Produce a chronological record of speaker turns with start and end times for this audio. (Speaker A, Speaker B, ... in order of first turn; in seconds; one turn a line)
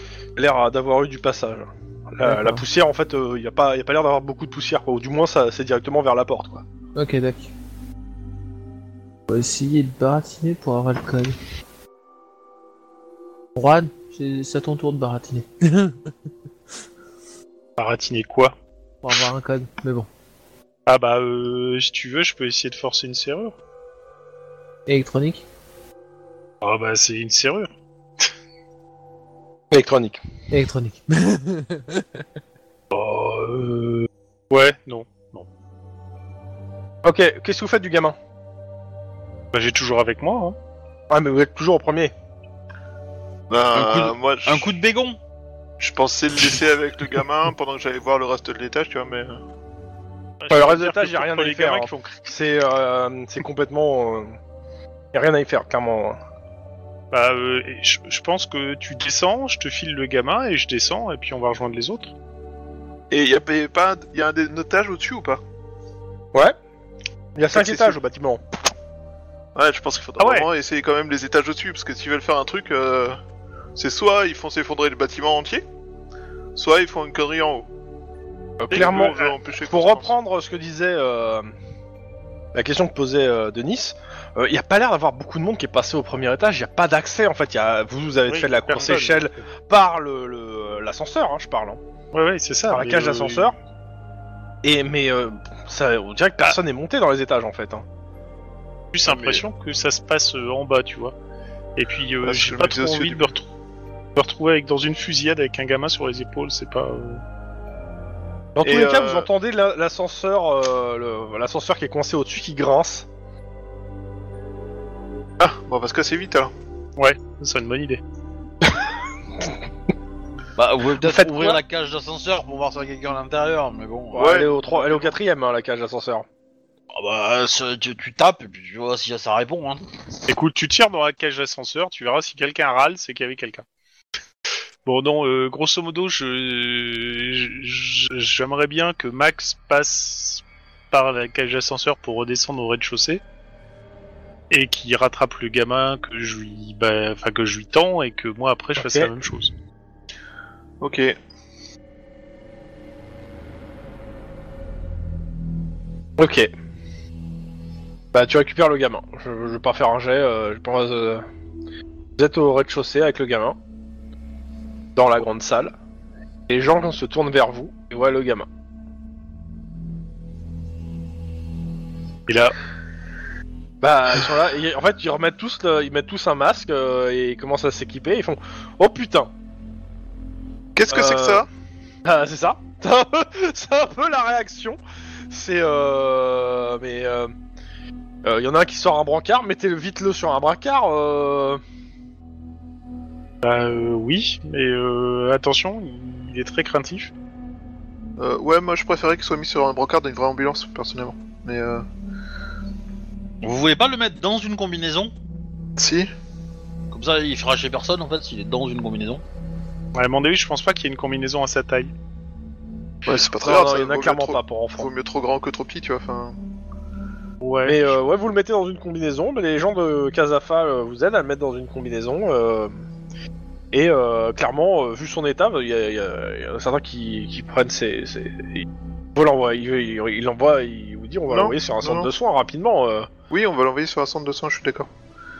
Speaker A: 0.4-6.6
Speaker B: 2.2-2.6
Speaker B: 7.0-7.5
Speaker B: 9.3-11.3
Speaker B: 13.6-16.1
Speaker C: 17.8-18.6
Speaker B: 19.0-20.1
Speaker C: 20.9-23.6
Speaker B: 24.9-25.4
Speaker C: 26.6-27.7
Speaker A: 29.7-30.2
Speaker B: 30.5-32.0
Speaker A: 32.9-34.1
Speaker C: 34.5-35.5
Speaker A: 37.0-38.1
Speaker C: 39.5-40.6
Speaker A: 41.1-42.1
Speaker D: 43.5-44.7
Speaker E: 43.7-45.2
Speaker D: 45.8-49.4
Speaker C: 50.4-52.1
Speaker A: 50.5-54.4
Speaker A: 55.1-56.2
Speaker C: 57.1-62.1
Speaker D: 63.1-65.4
Speaker A: 67.3-68.4
Speaker D: 67.5-68.0
Speaker D: 69.5-73.2
Speaker A: 70.2-70.5
Speaker D: 73.8-75.6
Speaker D: 76.5-77.7
Speaker A: 78.6-81.5
Speaker D: 78.7-80.1
Speaker C: 78.7-79.3
Speaker A: 82.5-91.8
Speaker C: 88.3-89.4
Speaker C: 92.1-93.5
Speaker A: 92.7-93.5
Speaker A: 94.6-97.8
Speaker C: 98.9-101.2
Speaker D: 99.1-99.4
Speaker C: 101.8-103.5
Speaker D: 102.2-103.3
Speaker C: 104.2-107.2
Speaker A: 108.6-113.1
Speaker D: 108.6-109.3
Speaker D: 115.4-116.5
Speaker C: 117.0-118.0
Speaker E: 120.6-124.5
Speaker A: 121.0-121.6
Speaker A: 124.1-126.2
Speaker D: 124.2-124.5
Speaker E: 126.9-129.8
Speaker C: 130.3-133.7
Speaker C: 134.9-143.2
Speaker C: 144.5-149.5
Speaker A: 148.8-149.1
Speaker D: 150.8-151.2
Speaker A: 156.2-156.5
Speaker A: 158.1-161.2
Speaker A: 162.2-163.6
Speaker A: 165.0-165.7
Speaker A: 166.5-168.5
Speaker C: 172.3-172.5
Speaker A: 173.8-179.3
Speaker D: 180.8-181.5
Speaker A: 180.9-181.5
Speaker A: 182.1-184.8
Speaker A: 185.3-187.3
Speaker A: 188.2-191.6
Speaker C: 193.4-197.1
Speaker D: 198.2-201.8
Speaker E: 203.4-205.1
Speaker D: 205.8-206.1
Speaker E: 206.9-209.2
Speaker C: 209.9-211.9
Speaker D: 213.1-216.4
Speaker A: 213.4-214.9
Speaker C: 217.4-218.0
Speaker A: 217.7-222.8
Speaker A: 223.7-233.1
Speaker D: 231.3-232.1
Speaker D: 233.3-234.9